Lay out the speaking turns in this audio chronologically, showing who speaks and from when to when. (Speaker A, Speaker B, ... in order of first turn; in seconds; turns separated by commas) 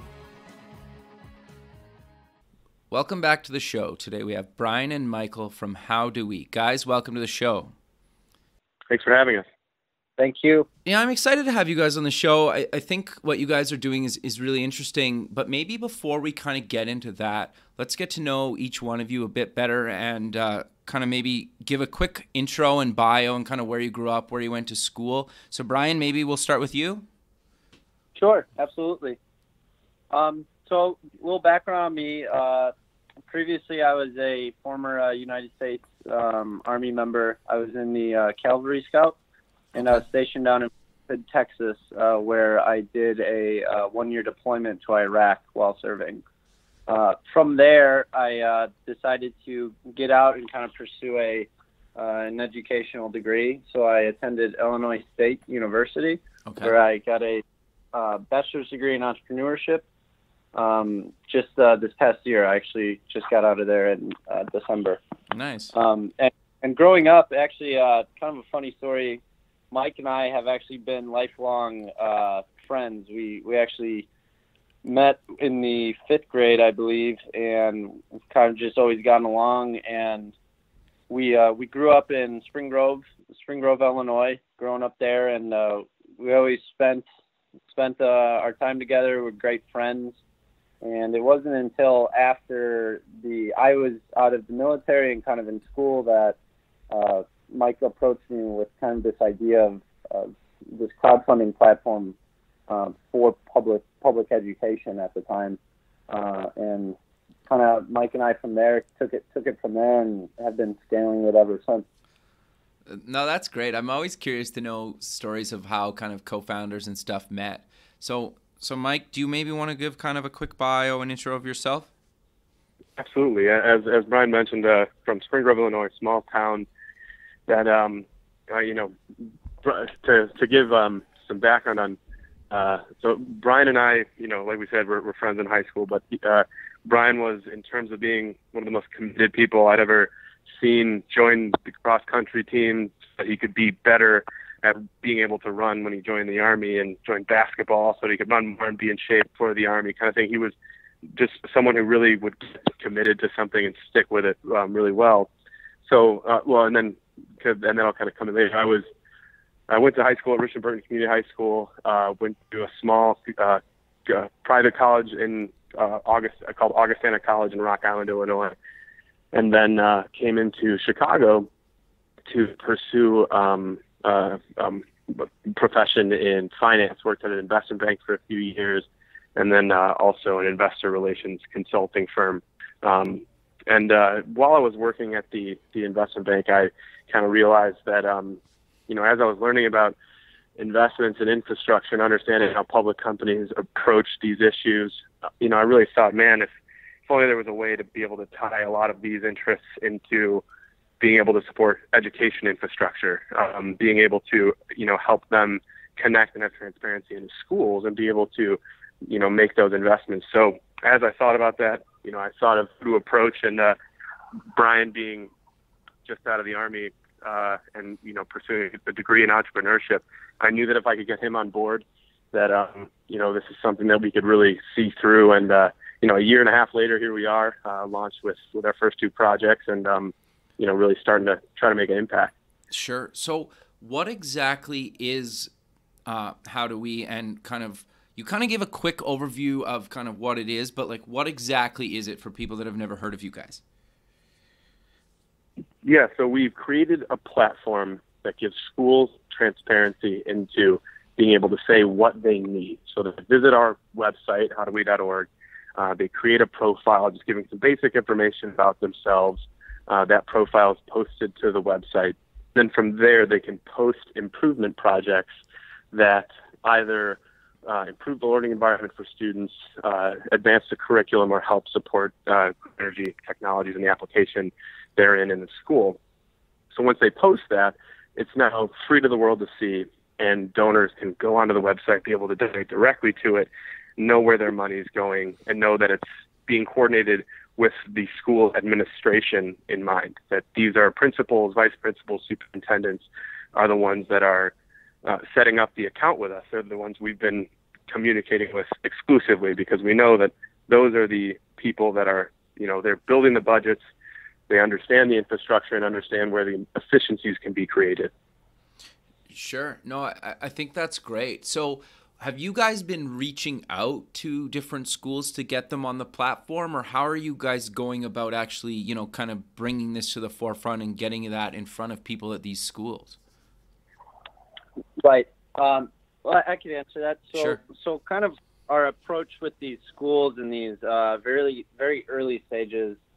Speaker A: 2.9-7.7, Speaker B: 8.9-9.4, Speaker C: 10.2-10.7, Speaker A: 10.8-27.0, Speaker C: 28.1-29.2, Speaker C: 30.1-32.7, Speaker C: 33.3-39.2, Speaker C: 39.7-46.2, Speaker C: 46.9-59.8, Speaker A: 56.5-56.7, Speaker C: 60.5-65.0, Speaker A: 65.3-65.7, Speaker C: 65.7-74.1, Speaker C: 74.8-80.3, Speaker C: 81.1-87.0, Speaker C: 87.7-90.2, Speaker C: 90.8-96.4, Speaker C: 96.9-102.2, Speaker C: 102.7-105.6, Speaker C: 106.1-107.0, Speaker C: 107.5-111.8, Speaker A: 112.9-121.9, Speaker B: 123.0-126.7, Speaker B: 127.5-128.9, Speaker B: 129.6-132.0, Speaker B: 132.5-150.5, Speaker B: 151.1-155.3, Speaker B: 155.8-158.8, Speaker B: 159.7-168.5, Speaker B: 169.3-171.5, Speaker B: 172.3-190.0, Speaker B: 190.6-196.5, Speaker B: 197.1-200.4, Speaker B: 201.0-213.7, Speaker B: 214.5-215.3, Speaker B: 216.0-232.3, Speaker A: 232.7-235.5, Speaker A: 236.1-243.6, Speaker B: 245.8-265.3, Speaker B: 265.9-276.0, Speaker B: 276.7-303.8, Speaker B: 304.5-308.1, Speaker A: 309.3-323.2, Speaker C: 325.0-333.0, Speaker A: 327.3-327.6